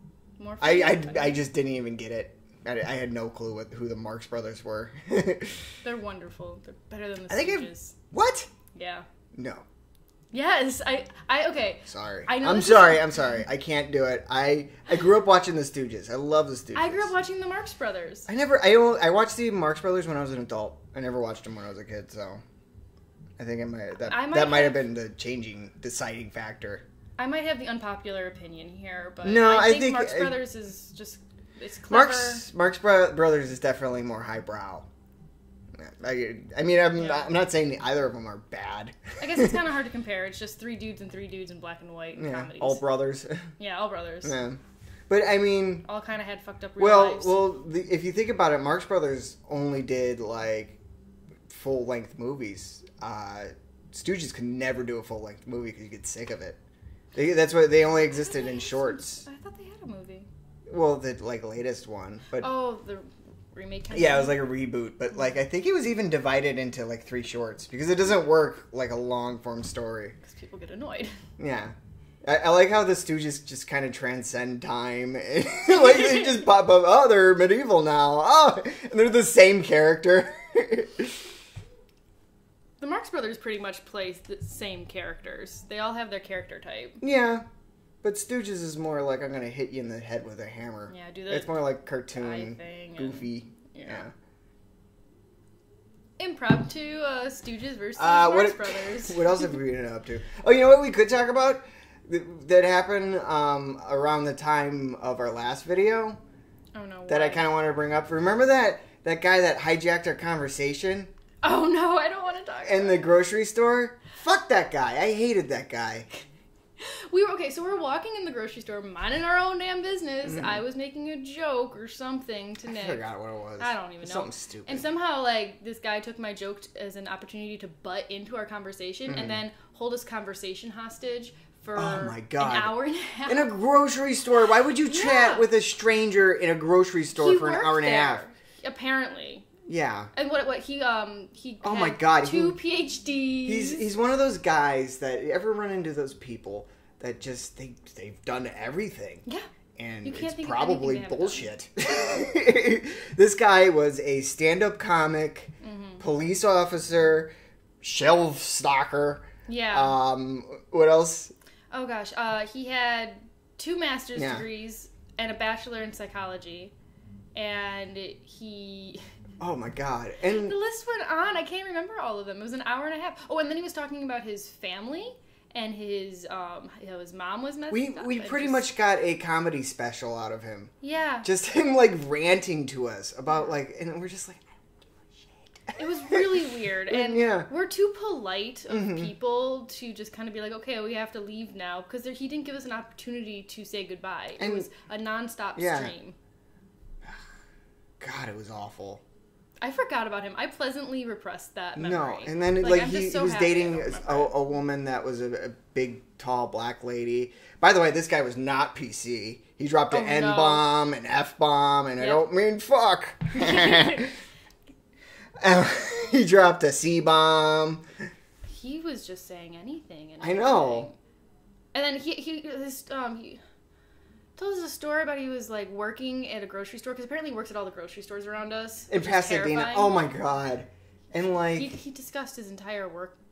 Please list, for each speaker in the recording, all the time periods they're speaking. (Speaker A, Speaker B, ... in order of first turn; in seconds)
Speaker A: 0.4-1.4, 5.8-8.0, 8.7-9.1, 10.3-13.1, 16.7-18.3, 24.0-24.8, 27.2-32.5, 37.0-37.3, 39.2-42.8, 43.6-44.4, 45.9-47.4, 57.9-60.3, 62.4-64.4, 70.2-71.1, 82.8-87.0, 90.9-91.6, 92.1-94.1, 96.2-99.5, 106.7-107.5, 111.4-113.1, 116.8-123.0, 123.6-133.5, 134.8-135.5, 137.2-139.5, 140.1-143.9, 150.0-151.5, 155.6-156.0, 159.5-160.0, 161.7-166.7, 167.3-169.0, 170.4-178.7, 180.8-181.3, 185.8-196.2, 199.6-204.4, 209.9-210.7, 212.0-212.3, 213.3-214.1, 218.5-221.0, 221.7-223.4, 224.4-230.0, 231.5-233.2
Speaker B: 0.6-5.6, 7.3-8.5, 9.3-9.7, 11.9-17.1, 18.3-22.4, 23.4-26.8, 29.2-30.4, 31.9-34.9, 35.7-39.5, 42.2-43.5, 44.2-45.9, 46.8-50.8, 51.5-56.6, 57.1-59.2, 60.7-62.5, 63.9-70.2, 71.4-81.2, 87.0-87.5, 88.0-94.1, 98.0-106.2, 107.1-111.1, 112.7-116.1, 120.3-120.6, 122.7-124.8, 129.1-129.4, 131.8-138.3, 139.7-140.1, 141.6-142.6, 143.4-149.2, 149.8-157.3, 157.8-161.3, 164.2-164.5, 169.4-170.6, 177.7-180.7, 181.2-186.3, 186.9-187.5, 188.7-189.1, 194.4-194.7, 195.6-195.9, 198.0-199.0, 201.8-214.2, 215.4-217.8, 220.2-220.9, 228.9-231.7